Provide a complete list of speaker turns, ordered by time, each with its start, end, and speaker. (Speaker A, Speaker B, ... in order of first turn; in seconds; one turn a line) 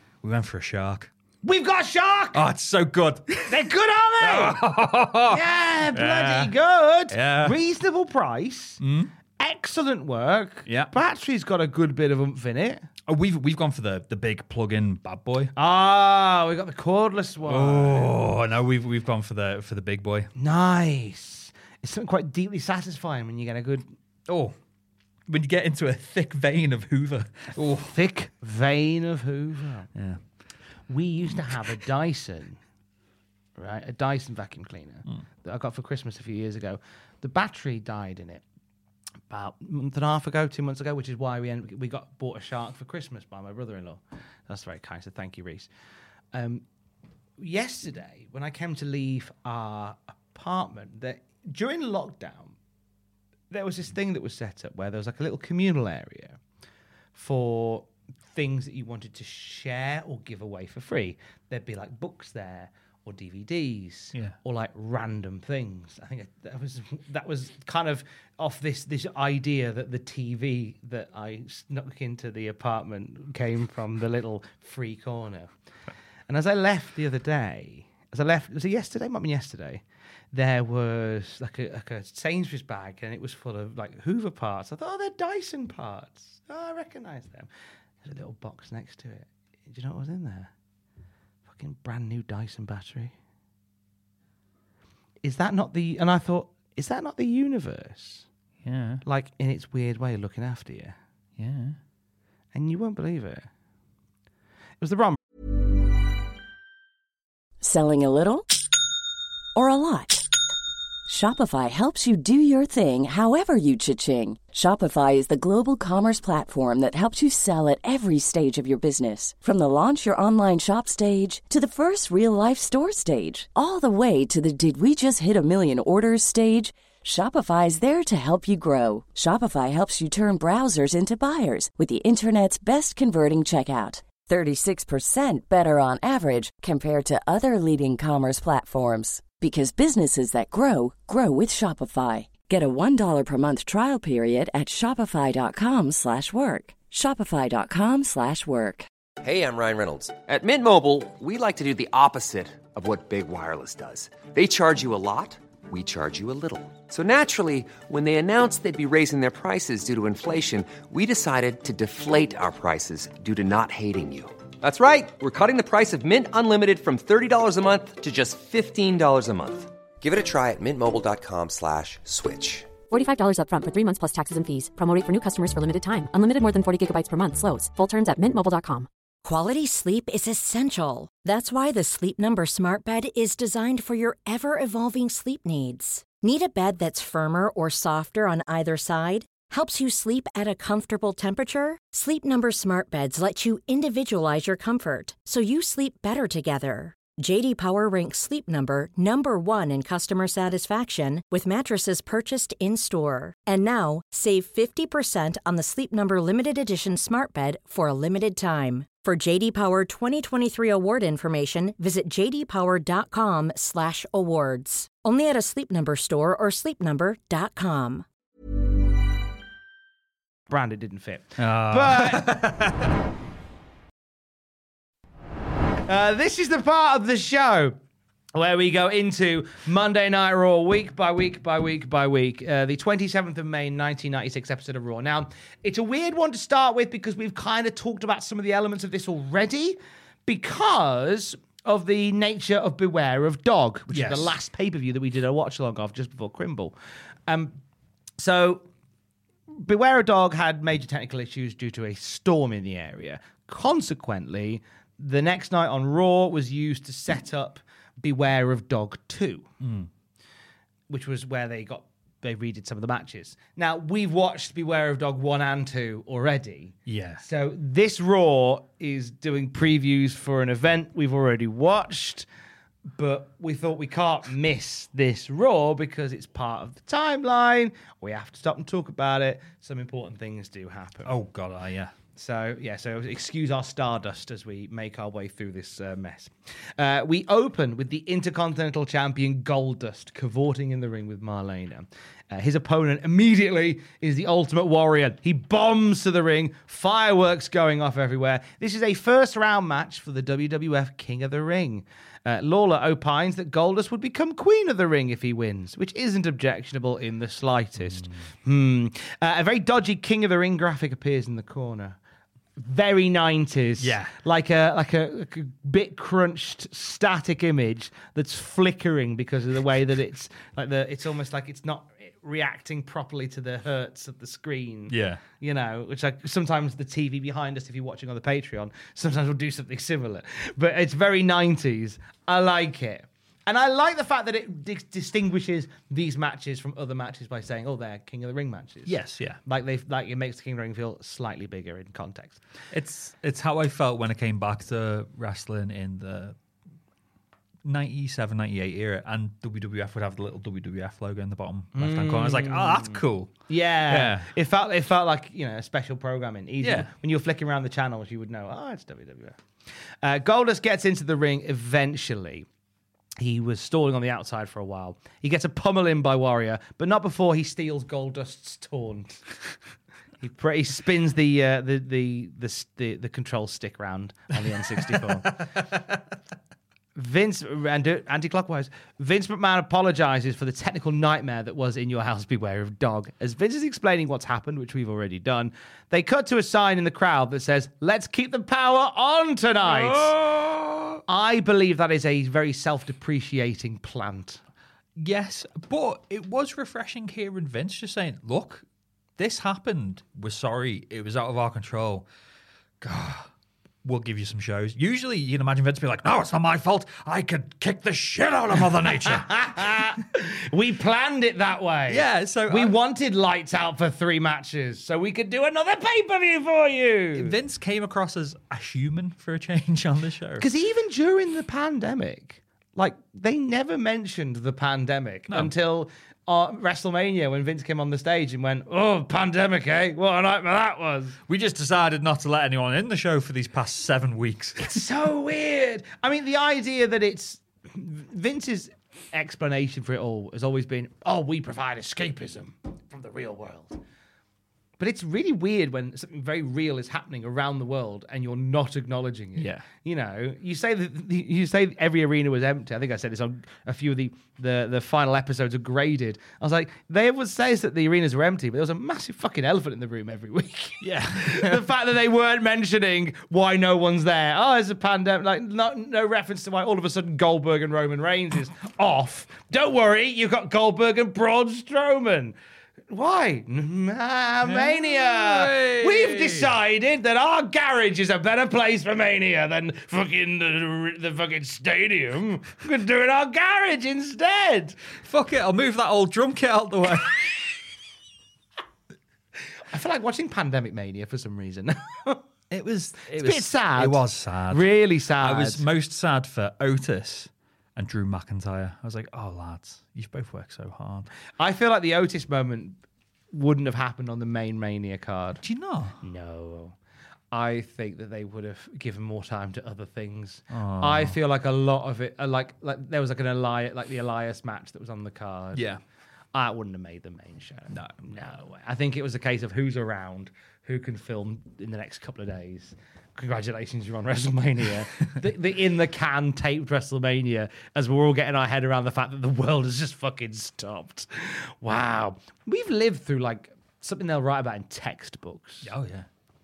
Speaker A: 0.2-1.1
Speaker B: 1.4-2.4
Speaker A: 2.3-3.6
Speaker B: 3.5-4.6
Speaker A: 4.2-6.5
Speaker B: 5.3-8.8
Speaker A: 7.1-7.6
Speaker A: 8.8-9.1
Speaker B: 9.4-12.8
Speaker A: 10.7-10.9
Speaker A: 13.1-15.5
Speaker B: 15.5-18.2
Speaker A: 17.5-20.3
Speaker B: 20.4-23.9
Speaker A: 24.3-24.5
Speaker A: 25.3-27.9
Speaker B: 27.9-29.9
Speaker B: 30.9-32.6
Speaker B: 33.6-38.4
Speaker B: 39.3-45.7
Speaker B: 46.3-46.6
Speaker B: 47.4-52.5
Speaker B: 53.5-56.4
Speaker B: 57.1-75.5
Speaker B: 76.3-79.8
Speaker B: 80.3-87.5
Speaker B: 88.0-90.5
Speaker B: 91.5-93.1
Speaker B: 95.2-98.3
Speaker A: 98.6-99.0
Speaker B: 99.0-101.0
Speaker A: 101.4-101.8
Speaker B: 102.5-103.5
Speaker B: 104.8-105.2
Speaker C: 107.6-108.5
Speaker C: 109.5-110.3
Speaker C: 111.1-148.9
Speaker D: 149.2-172.8
Speaker E: 172.9-178.9
Speaker F: 179.2-218.1
Speaker B: 220.5-222.4
Speaker A: 221.4-222.9
Speaker B: 225.9-227.8
Speaker B: 228.3-246.8
Speaker A: 243.9-244.3
Speaker B: 247.3-247.6
Speaker B: 248.2-248.7
Speaker B: 249.5-259.5
Speaker A: 259.6-259.9
Speaker B: 260.9-272.3
Speaker A: 266.9-267.2
Speaker B: 272.9-281.2
Speaker A: 281.0-281.9
Speaker B: 282.1-312.0
Speaker A: 307.8-308.1
Speaker B: 312.6-338.9
Speaker A: 313.8-314.1
Speaker A: 324.9-325.2
Speaker A: 338.9-339.4
Speaker B: 339.4-342.4
Speaker A: 342.7-346.4
Speaker A: 347.6-354.3
Speaker B: 351.8-359.4
Speaker A: 356.6-356.9
Speaker B: 360.0-362.5
Speaker B: 363.2-369.3
Speaker B: 370.2-375.6
Speaker B: 376.9-390.2
Speaker A: 389.6-391.0
Speaker B: 391.1-394.4
Speaker A: 395.0-398.6
Speaker A: 399.2-402.0
Speaker A: 402.8-403.3
Speaker A: 403.8-409.8
Speaker B: 408.9-417.3
Speaker A: 411.9-412.7
Speaker A: 417.1-420.5
Speaker B: 420.4-431.2
Speaker A: 431.3-434.8
Speaker B: 434.6-443.8
Speaker B: 444.8-472.4
Speaker A: 449.4-449.6
Speaker A: 460.8-461.6
Speaker B: 472.9-484.8
Speaker A: 474.4-476.5
Speaker A: 485.0-487.2
Speaker B: 489.7-492.2
Speaker A: 492.5-501.1
Speaker B: 493.2-495.6
Speaker B: 501.4-502.8
Speaker B: 503.3-505.4
Speaker A: 505.4-506.0
Speaker B: 506.0-506.8
Speaker B: 507.3-515.7
Speaker A: 510.5-511.1
Speaker A: 515.5-515.8
Speaker B: 516.3-535.7
Speaker A: 517.7-518.0
Speaker A: 535.6-536.1